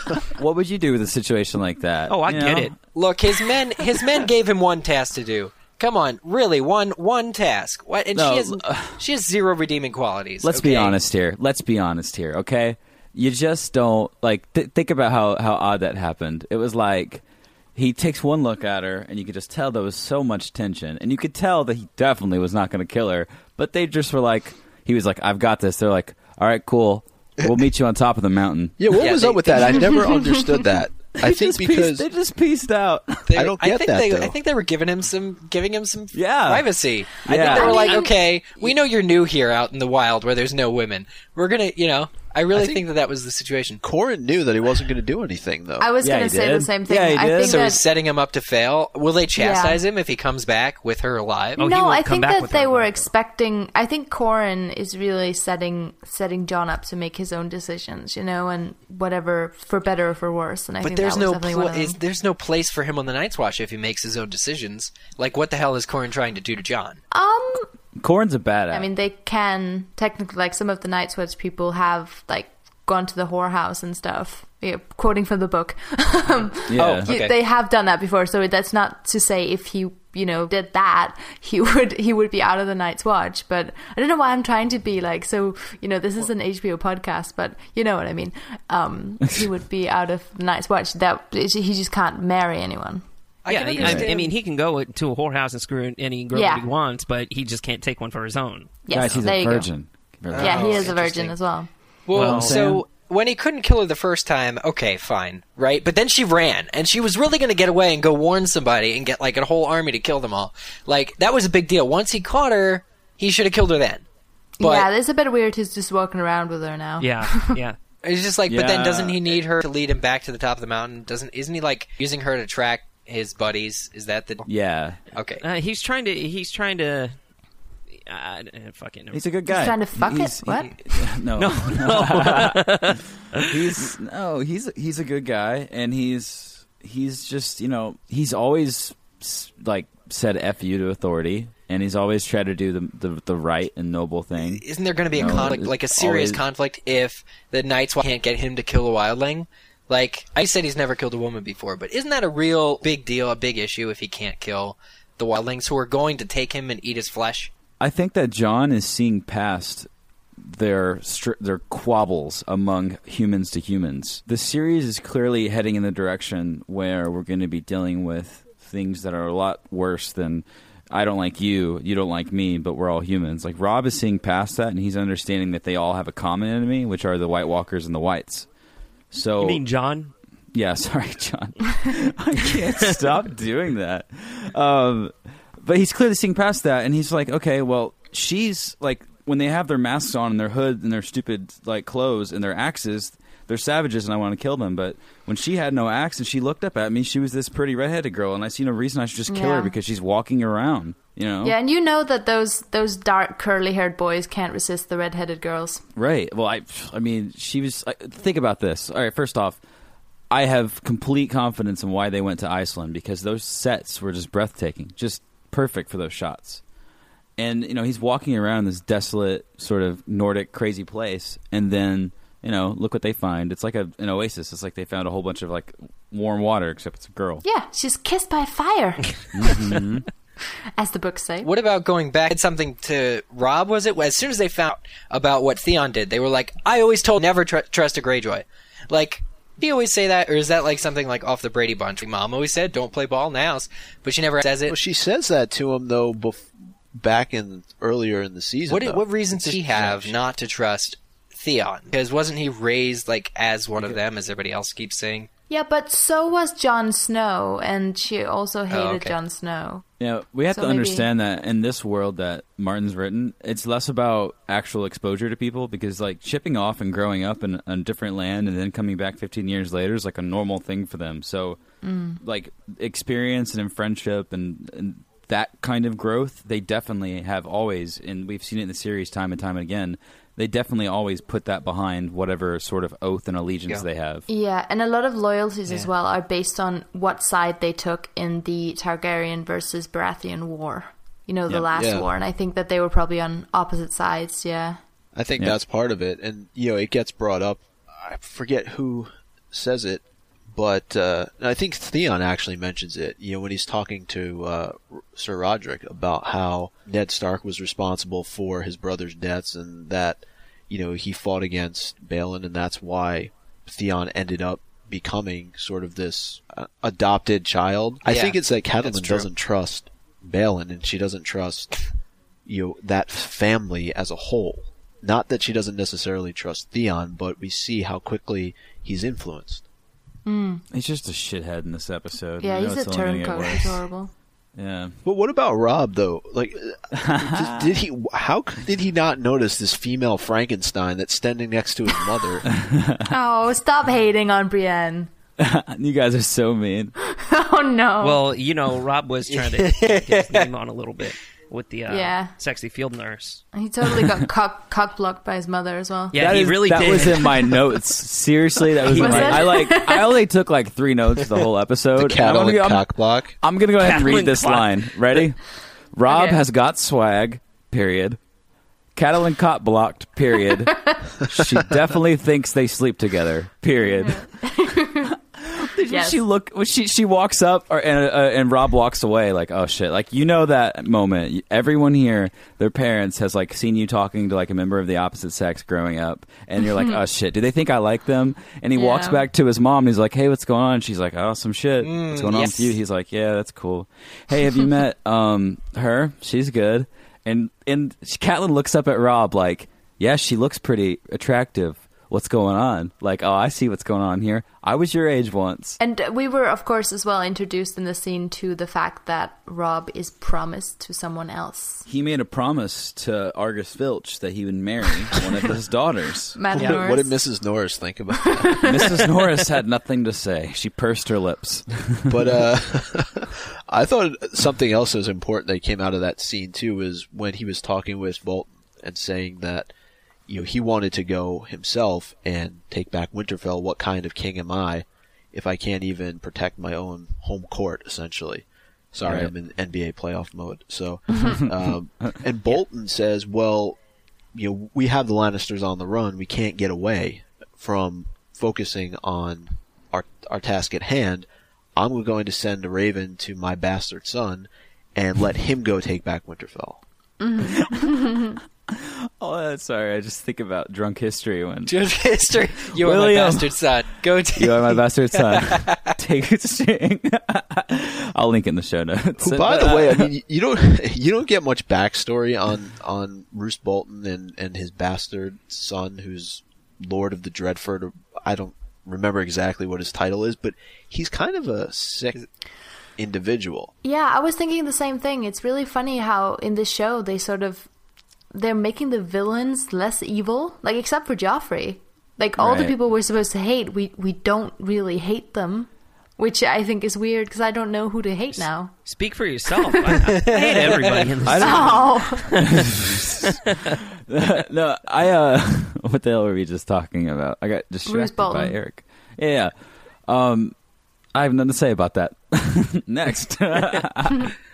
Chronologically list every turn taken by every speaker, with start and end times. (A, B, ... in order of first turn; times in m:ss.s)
0:00.2-0:02.7 A
0:02.1-0:02.7 B
0:02.9-0:11.0 C
0:08.2-0:09.0 A
0:10.4-0:17.2 A
0:17.8-0:29.1 A
0:28.8-0:32.0 D
0:29.0-0:30.2 C
0:31.2-0:33.3 A
0:33.3-0:43.8 C
0:33.4-0:34.4 D
0:36.1-0:36.7 A
0:37.2-0:37.8 A
0:37.5-0:38.1 E
0:42.6-0:42.8 D
0:43.8-0:45.9 D
0:45.8-0:47.8 E
0:46.0-0:47.6 A
0:47.4-0:51.6 C
0:49.4-0:49.8 E
0:51.6-0:53.1 B
0:51.6-1:02.0 E
1:00.8-1:07.0 C
1:07.1-1:07.7 E
1:08.0-1:08.9 A
1:08.7-1:33.0 E
1:16.7-1:17.1 A
1:16.8-1:17.3 C
1:33.4-1:34.4 C
1:33.5-1:39.2 B
1:33.8-1:34.1 A
1:36.3-1:36.7 E
1:38.8-1:39.7 E
1:38.9-1:40.8 A
1:40.3-1:41.3 C
1:40.4-1:41.7 E
1:42.1-1:54.0 C
1:42.2-1:42.6 B
1:42.2-1:42.8 A
1:54.6-1:57.6 E
1:54.6-1:54.9 C
1:57.0-1:57.8 B
1:58.0-2:04.5 C
1:58.5-1:59.4 A
2:04.5-2:05.0 A
2:05.1-2:05.4 C
2:05.4-2:07.2 B
2:07.9-2:09.2 B
2:09.1-2:26.4 A
2:09.5-2:10.7 E
2:11.3-2:13.7 B
2:24.4-2:37.5 C
2:37.8-2:39.9 A
2:40.4-2:58.5 A
2:59.1-2:59.6 A
2:59.4-3:00.1 B
3:00.5-3:21.6 A
3:02.6-3:02.9 B
3:19.3-3:19.7 E
3:21.4-3:25.8 E
3:26.0-3:29.6 A
3:30.3-3:36.6 A
3:37.4-3:47.4 A
3:47.4-3:49.7 E
3:49.3-3:50.1 A
3:50.8-3:51.5 E
3:51.4-4:04.8 C
4:04.7-4:10.2 D
4:08.7-4:15.3 C
4:15.5-4:19.8 E
4:18.7-4:19.2 C
4:20.0-4:31.6 A
4:20.5-4:21.1 E
4:31.8-4:32.2 E
4:32.2-4:44.3 A
4:44.3-4:54.8 E
4:51.8-4:52.1 D
4:55.1-5:21.9 D
5:18.0-5:19.3 C
5:22.5-5:29.6 D
5:30.2-5:30.6 E
5:30.7-5:33.8 A
5:32.4-5:34.1 E
5:34.6-5:35.0 A
5:35.0-5:42.5 D
5:36.9-5:37.8 A
5:42.5-5:43.1 A
5:43.1-5:45.1 E
5:45.4-5:46.9 A
5:47.0-5:48.2 E
5:48.0-5:53.4 B
5:49.3-5:50.5 C
5:51.9-5:52.3 E
5:53.5-5:56.3 E
5:56.1-5:57.5 B
5:56.1-6:05.4 A
5:58.8-5:59.6 B
5:58.9-6:00.2 E
6:02.0-6:03.4 D
6:03.8-6:05.2 B
6:05.9-6:08.2 A
6:06.1-6:06.4 E
6:08.9-6:14.3 A
6:14.0-6:15.1 E
6:15.0-6:45.8 A
6:15.9-6:16.2 E
6:26.6-6:27.0 E
6:28.8-6:29.2 E
6:31.8-6:32.7 C
6:45.8-6:51.8 E
6:51.9-6:56.4 A
6:56.4-6:57.2 E
6:56.5-6:59.0 D
6:56.6-6:56.8 B
6:58.4-6:59.0 E
6:58.6-7:02.5 A
7:02.1-7:09.7 D
7:10.3-7:23.8 D
7:19.0-7:19.3 A
7:21.4-7:21.8 A
7:24.3-7:36.8 D
7:37.2-7:38.4 E
7:37.4-7:41.8 A
7:41.7-7:45.9 C
7:42.7-7:43.6 A
7:44.4-7:50.1 A
7:49.2-8:02.2 D
8:03.0-8:03.7 D
8:03.8-8:07.7 E
8:08.3-8:18.8 E
8:12.4-8:12.7 A
8:18.8-8:22.6 B
8:20.2-8:21.1 C
8:21.2-8:23.4 A
8:21.4-8:22.3 E
8:23.2-8:23.8 B
8:24.1-8:29.5 A
8:27.9-8:28.6 E
8:30.1-8:30.6 A
8:31.1-8:34.3 A